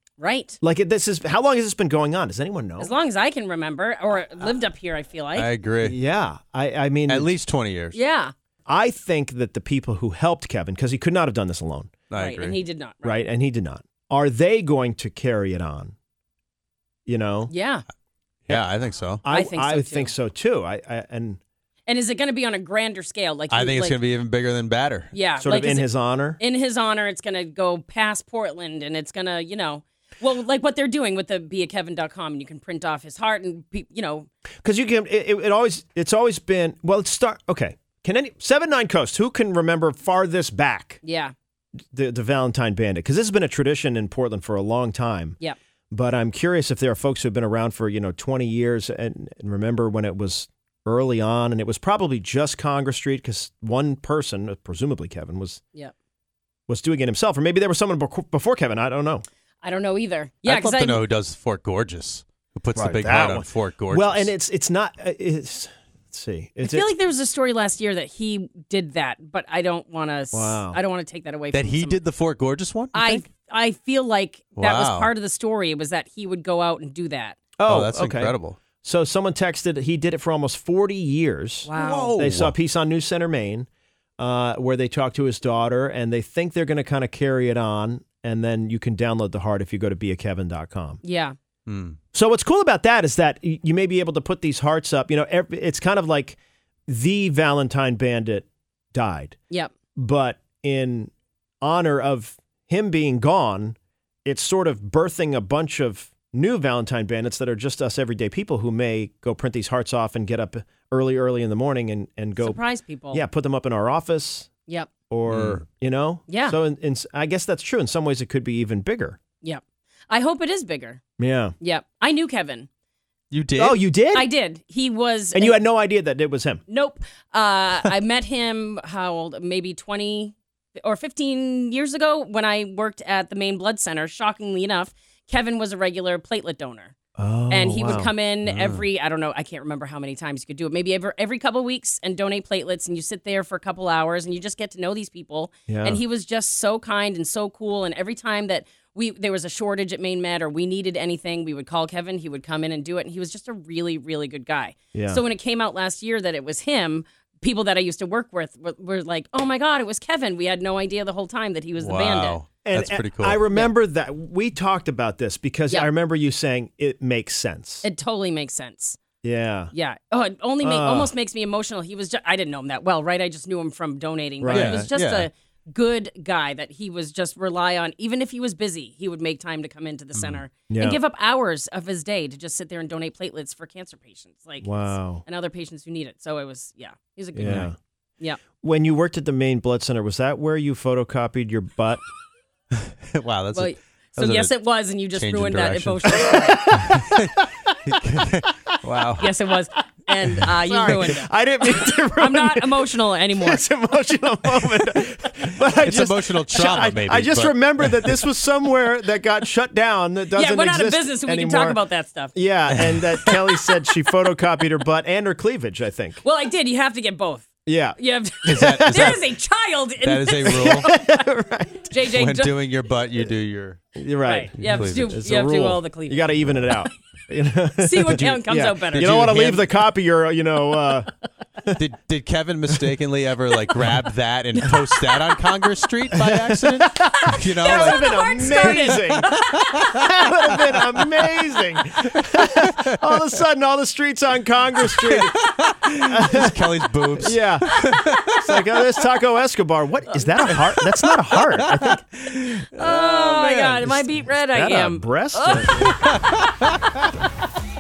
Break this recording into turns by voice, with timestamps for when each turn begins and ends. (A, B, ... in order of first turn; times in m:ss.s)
0:00.2-0:00.6 A
0:00.6-0:03.0 B
0:02.8-0:05.5 A
0:05.3-0:06.0 C
0:05.8-0:07.3 B
0:07.1-0:08.0 C
0:07.9-0:08.3 A
0:08.7-0:11.9 B
0:12.1-0:12.6 C
0:12.1-0:13.2 A
0:13.0-0:16.0 B
0:17.1-0:17.5 B
0:17.5-0:17.8 A
0:18.5-0:19.2 C
0:19.2-0:21.4 B
0:19.3-0:20.1 A
0:21.9-0:24.0 A
0:23.5-0:25.1 C
0:25.1-0:34.3 A
0:25.4-0:26.4 B
0:34.6-0:41.0 B
0:41.0-0:41.3 A
0:41.9-0:45.4 B
0:45.9-0:55.6 B
0:56.7-0:59.2 B
0:59.6-1:01.0 A
1:00.4-1:04.3 C
1:02.8-1:06.9 B
1:06.6-1:12.0 A
1:10.3-1:10.8 B
1:11.5-1:13.2 C
1:12.9-1:17.4 A
1:14.6-1:15.1 C
1:17.6-1:23.7 B
1:17.7-1:18.6 C
1:21.7-1:22.2 A
1:21.7-1:22.6 C
1:24.2-1:31.0 B
1:31.0-1:31.4 A
1:31.7-1:32.0 C
1:32.1-1:39.4 B
1:40.0-1:52.6 B
1:52.4-1:53.2 A
1:53.1-1:54.5 B
1:55.1-1:59.2 B
1:55.3-1:55.6 C
1:56.3-1:56.6 A
1:59.4-2:01.0 A
2:01.2-2:01.5 B
2:01.6-2:02.7 A
2:03.3-2:03.8 C
2:03.6-2:04.3 B
2:04.1-2:05.6 A
2:05.4-2:06.6 B
2:06.7-2:16.9 A
2:17.2-2:18.1 B
2:17.5-2:42.4 A
2:18.4-2:18.9 C
2:25.7-2:26.0 B
2:34.9-2:35.2 B
2:41.8-2:43.4 C
2:42.6-2:47.9 B
2:47.8-2:49.0 A
2:49.2-2:49.7 B
2:49.7-3:08.4 A
2:50.6-2:51.1 B
2:54.4-2:54.8 B
2:54.5-2:55.3 C
3:00.2-3:00.4 C
3:00.7-3:01.0 B
3:04.6-3:05.2 B
3:07.4-3:07.7 B
3:07.4-3:07.7 C
3:08.6-3:12.0 B
3:12.7-3:14.6 C
3:13.5-3:16.9 A
3:15.1-3:19.3 C
3:16.3-3:17.3 B
3:19.2-3:23.6 A
3:20.4-3:31.8 B
3:25.6-3:28.3 C
3:30.3-3:32.3 A
3:32.3-3:36.2 B
3:32.7-3:33.4 C
3:36.2-3:41.0 A
3:37.7-3:39.2 B
3:38.5-3:39.2 C
3:40.0-3:40.9 C
3:40.5-3:41.9 B
3:41.9-3:42.6 A
3:42.1-3:43.8 C
3:44.0-3:51.1 B
3:44.2-3:46.8 A
3:44.6-3:45.2 C
3:47.8-3:49.6 A
3:49.0-3:49.6 C
3:51.8-4:00.1 C
3:56.1-4:06.6 B
3:57.6-3:59.6 A
4:00.8-4:01.3 C
4:02.4-4:03.1 C
4:04.9-4:08.7 C
4:07.2-4:07.8 B
4:08.3-4:16.0 B
4:10.5-4:12.6 C
4:12.8-4:16.7 A
4:16.0-4:17.1 C